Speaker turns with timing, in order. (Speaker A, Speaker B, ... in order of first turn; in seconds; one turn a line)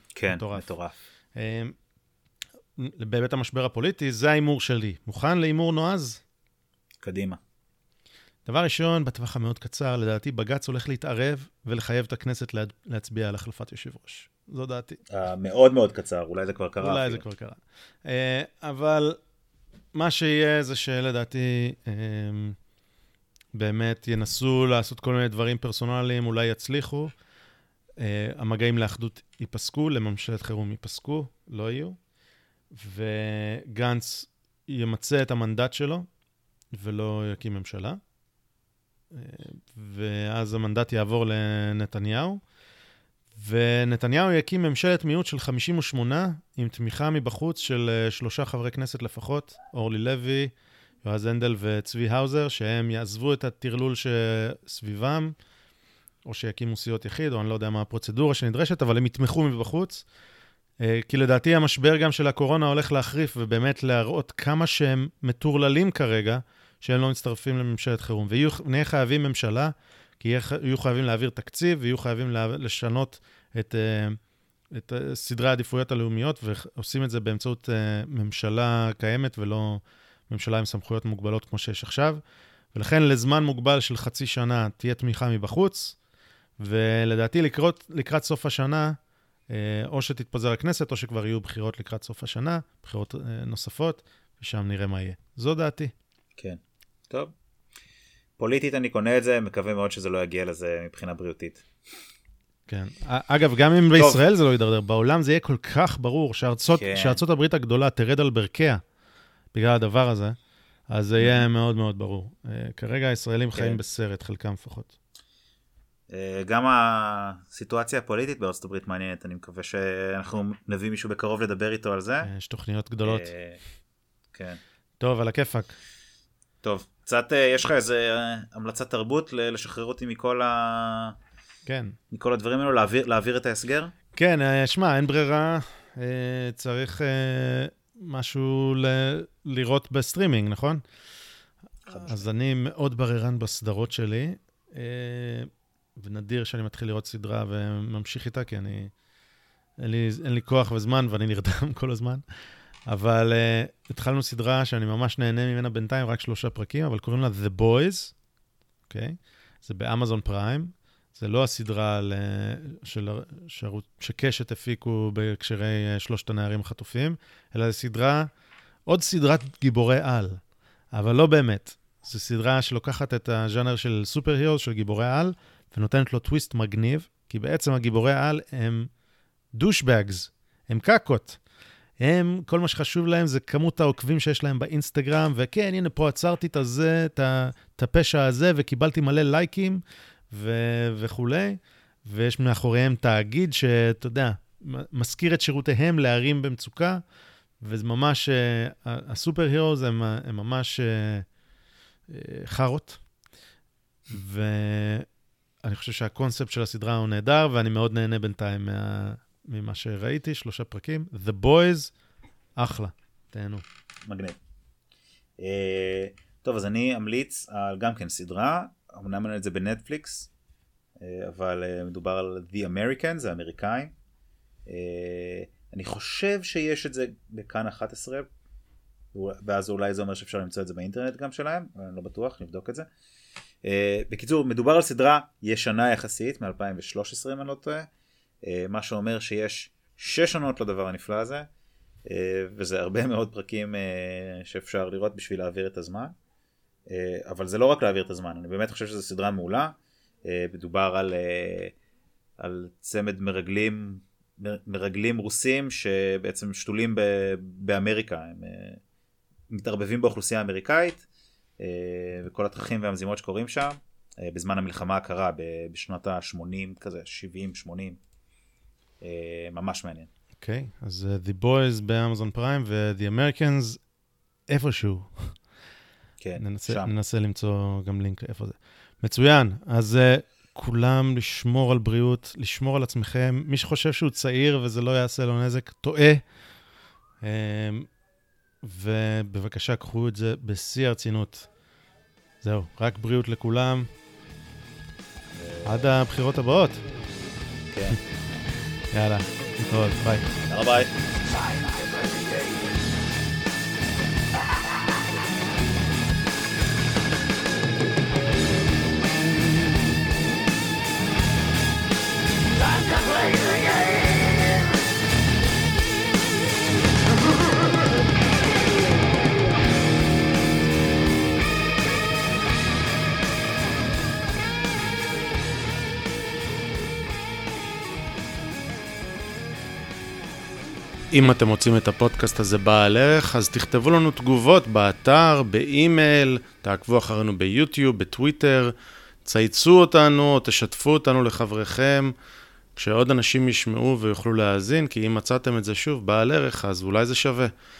Speaker A: 0.1-0.9
Speaker B: 0.3-0.7
Speaker B: 1.3-1.7
Speaker B: 2.8-6.2
Speaker A: 7.0-7.4
Speaker B: 8.4-15.0
Speaker A: 15.1-17.2
Speaker B: 16.8-19.2
Speaker B: 19.9-22.6
Speaker B: 23.5-27.1
Speaker B: 28.0-32.0
Speaker B: 32.7-36.1
Speaker B: 36.7-38.0
Speaker B: 39.1-42.4
Speaker B: 43.3-50.5
Speaker B: 51.0-55.3
Speaker B: 56.2-60.0
Speaker B: 60.8-74.2
Speaker B: 74.7-82.2
Speaker B: 82.7-86.0
Speaker B: 86.6-89.0
Speaker B: 89.5-95.9
Speaker A: 96.4-97.3
Speaker A: 98.4-101.6
Speaker B: 102.7-108.8
Speaker A: 106.7-107.2
Speaker B: 109.5-110.3
Speaker B: 110.9-114.9
Speaker A: 111.2-111.5
Speaker A: 113.5-113.8
Speaker A: 116.1-122.3
Speaker B: 122.2-123.3
Speaker A: 123.0-123.6
Speaker A: 124.3-124.6
Speaker B: 125.0-125.8
Speaker A: 126.6-131.2
Speaker B: 131.7-131.9
Speaker A: 132.1-133.9
Speaker B: 134.1-140.8
Speaker A: 141.9-142.2
Speaker B: 141.9-148.9
Speaker B: 149.8-152.2
Speaker B: 152.9-158.1
Speaker B: 158.9-168.3
Speaker B: 168.9-170.4
Speaker B: 170.9-178.9
Speaker B: 179.5-181.4
Speaker B: 182.0-197.0
Speaker B: 197.6-201.2
Speaker B: 202.1-203.0
Speaker B: 204.1-205.1
Speaker B: 205.6-211.9
Speaker B: 212.6-213.6
Speaker A: 214.1-214.4
Speaker A: 215.4-220.3
Speaker A: 221.0-223.9
Speaker A: 224.7-228.2
Speaker A: 229.1-232.9
Speaker A: 233.6-237.9
Speaker A: 238.4-241.5
Speaker A: 242.1-246.1
Speaker A: 246.9-251.7
Speaker A: 252.4-258.8
Speaker A: 259.5-261.0
Speaker A: 261.6-268.0
Speaker A: 269.0-270.1
Speaker B: 270.4-273.8
Speaker B: 274.5-275.3
Speaker A: 276.2-276.9
Speaker B: 276.4-286.2
Speaker B: 287.2-287.9
Speaker B: 288.6-291.5
Speaker B: 292.4-293.9
Speaker A: 295.3-295.8
Speaker B: 295.6-296.8
Speaker A: 297.7-298.0
Speaker B: 298.9-300.4
Speaker A: 300.5-300.9
Speaker C: 301.3-302.8
Speaker C: 312.5-314.8
Speaker B: 331.1-342.1
Speaker B: 342.8-347.5